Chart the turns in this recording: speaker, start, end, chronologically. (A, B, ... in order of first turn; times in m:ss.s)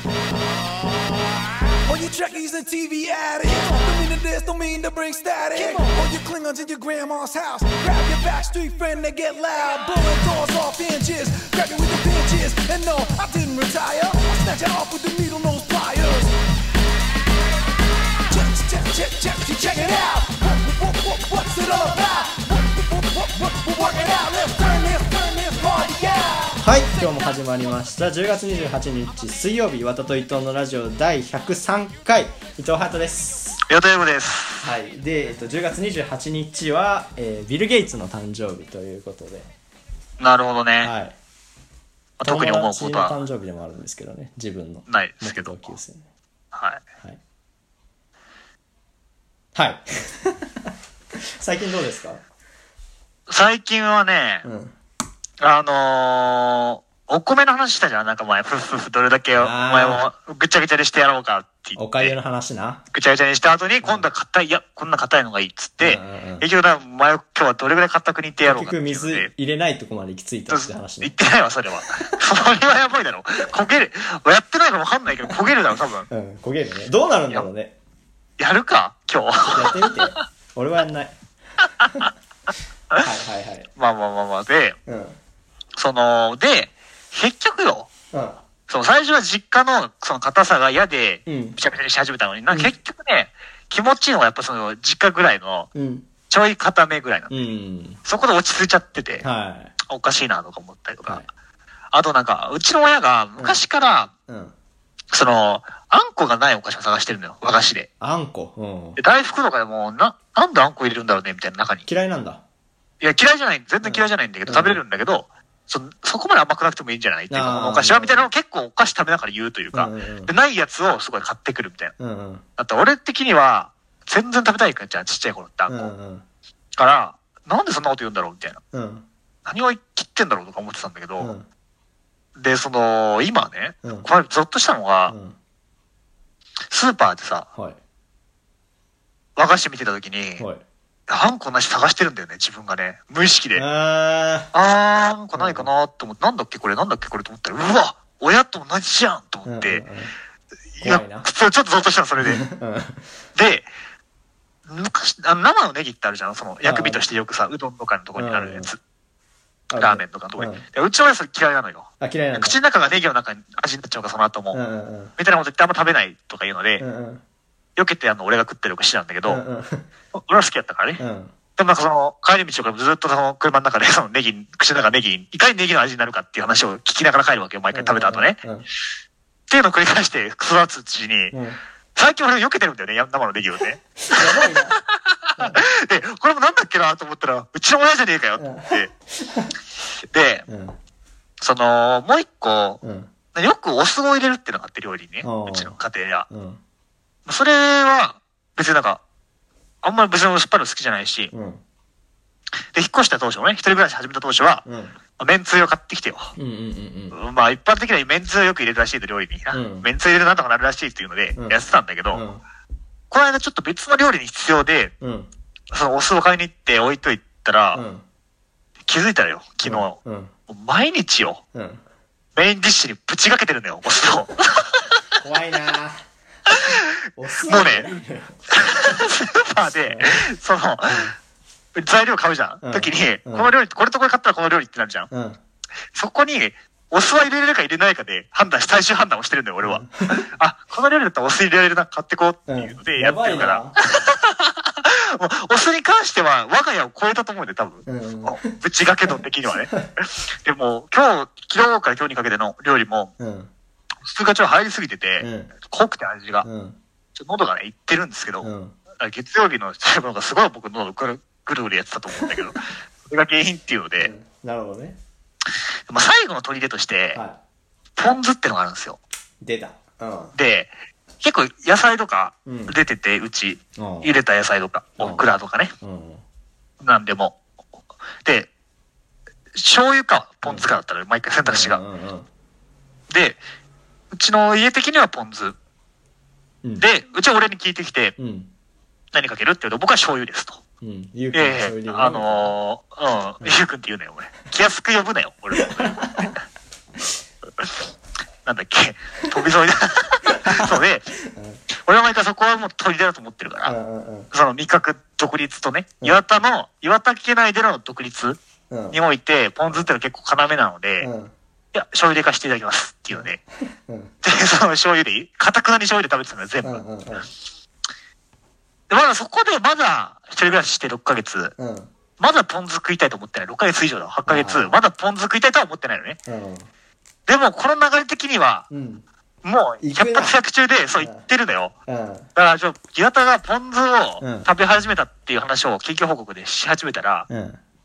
0:01.8-0:16.3 A
0:18.3-0:26.6 A
0:26.6-0:33.6 B
0:33.7-0:34.7 C
0:34.6-0:39.5 B
0:40.2-0:40.9 C
0:40.8-0:41.1 B
0:42.2-0:46.0 B
0:42.2-0:43.2 C
0:44.9-0:45.6 C
0:46.5-0:46.8 C
0:49.6-0:50.7 B
0:51.4-0:52.2 B
0:53.3-0:54.4 C
0:54.4-0:54.7 B
0:55.4-1:02.1 C
0:59.3-1:00.0 B
1:01.8-1:02.8 B
1:02.9-1:09.3 C
1:05.8-1:06.4 B
1:08.4-1:11.1 B
1:10.5-1:16.1 C
1:16.1-1:17.7 B
1:18.4-1:20.2 C
1:19.5-1:21.1 B
1:21.8-1:22.1 C
1:23.0-1:23.7 B
1:23.8-1:24.8 C
1:24.9-1:25.2 B
1:25.8-1:27.9 C
1:28.1-1:28.4 B
1:28.7-1:35.7 C
1:31.3-1:31.6 B
1:35.7-1:36.1 B
1:36.3-1:37.5 C
1:37.3-1:38.0 B
1:38.0-1:39.2 C
1:39.2-1:39.7 B
1:39.9-1:41.3 C
1:41.9-1:44.1 C
1:43.4-1:43.6 B
1:44.3-1:44.5 B
1:45.1-1:47.9 C
1:48.0-1:49.0 B
1:49.0-1:51.8 C
1:51.9-1:52.4 B
1:53.0-2:01.9 C
1:53.8-1:54.8 B
1:57.3-1:58.2 B
1:59.7-2:00.3 B
2:02.0-2:02.4 B
2:02.6-2:05.8 C
2:05.7-2:06.2 B
2:06.8-2:08.6 C
2:08.7-2:09.1 B
2:09.4-2:11.3 C
2:11.2-2:11.5 B
2:12.4-2:15.2 C
2:15.1-2:15.4 B
2:16.7-2:17.5 C
2:19.4-2:20.4 C
2:21.1-2:23.6 C
2:23.5-2:24.5 B
2:24.5-2:29.8 C
2:25.4-2:25.7 B
2:29.5-2:30.1 B
2:30.8-2:32.4 C
2:30.8-2:31.3 B
2:32.2-2:33.0 B
2:33.3-2:33.7 C
2:34.7-2:38.8 C
2:36.6-2:37.0 B
2:38.2-2:38.7 B
2:39.7-2:40.6 B
2:39.8-2:44.6 C
2:42.0-2:42.6 B
2:44.5-2:45.1 B
2:45.2-2:46.8 C
2:46.8-2:47.2 B
2:47.8-2:49.4 C
2:49.2-2:49.9 B
2:50.1-2:51.0 C
2:51.0-2:51.3 B
2:51.6-2:58.4 C
2:57.7-2:58.7 B
2:59.5-3:01.4 C
3:01.3-3:01.6 B
3:01.9-3:08.9 C
3:04.0-3:04.8 B
3:08.4-3:09.5 B
3:10.1-3:10.5 C
3:10.5-3:10.8 B
3:11.4-3:12.8 C
3:12.8-3:13.1 B
3:13.3-3:16.3 C
3:15.2-3:15.7 B
3:16.3-3:16.6 B
3:17.2-3:19.0 C
3:19.8-3:21.3 C
3:21.3-3:21.6 B
3:22.7-3:24.6 C
3:24.6-3:24.9 B
3:25.2-3:26.3 C
3:26.4-3:27.2 B
3:27.1-3:32.2 C
3:29.5-3:29.9 B
3:32.1-3:32.4 B
3:33.1-3:34.9 C
3:35.0-3:35.3 B
3:35.7-3:37.8 C
3:37.7-3:38.0 B
3:38.9-3:41.4 C
3:39.6-3:40.3 B
3:41.5-3:41.8 B
3:42.4-3:45.0 C
3:45.2-3:46.0 B
3:46.5-3:46.8 C
3:47.2-3:48.4 B
3:47.4-3:47.9 C
3:48.5-3:51.1 C
3:49.9-3:50.2 B
3:51.8-3:55.1 C
3:52.6-3:53.5 B
3:55.1-3:55.4 B
3:55.9-4:13.1 C
3:59.6-4:00.2 B
4:02.5-4:03.8 B
4:07.8-4:08.5 B
4:13.2-4:13.5 B
4:14.0-4:16.5 C
4:15.2-4:15.5 B
4:16.4-4:16.8 B
4:17.2-4:24.1 C
4:18.4-4:18.8 B
4:24.0-4:25.0 B
4:25.9-4:27.2 C
4:28.0-4:29.0 C
4:29.4-4:30.3 B
4:30.4-4:35.7 C
4:32.5-4:32.8 B
4:33.8-4:34.1 B
4:35.0-4:35.3 B
4:35.8-4:36.2 B
4:36.8-4:37.4 C
4:38.2-4:38.5 C
4:39.5-4:41.8 C
4:41.4-4:42.3 B
4:43.1-4:43.4 C
4:44.1-4:45.6 C
4:46.8-4:48.2 C
4:48.2-4:48.5 B
4:49.1-4:50.6 C
4:50.8-4:52.5 B
4:51.3-4:56.4 C
4:55.6-4:56.3 B
4:58.4-5:01.1 C
5:00.3-5:01.6 B
5:01.8-5:03.8 C
5:03.6-5:04.3 B
5:04.3-5:08.4 C
5:08.7-5:09.0 B
5:08.9-5:11.1 C
5:11.0-5:11.3 B
5:11.7-5:13.4 C
5:13.1-5:14.1 B
5:14.2-5:16.8 C
5:16.6-5:17.3 B
5:18.9-5:21.5 C
5:21.6-5:21.9 B
5:22.2-5:26.2 C
5:24.3-5:24.8 B
5:26.3-5:26.7 B
5:27.3-5:28.7 C
5:28.7-5:29.0 B
5:29.4-5:31.7 C
5:29.8-5:30.4 B
5:31.0-5:31.3 B
5:31.9-5:32.3 B
5:32.4-5:37.3 C
5:34.2-5:34.5 B
5:37.3-5:37.6 B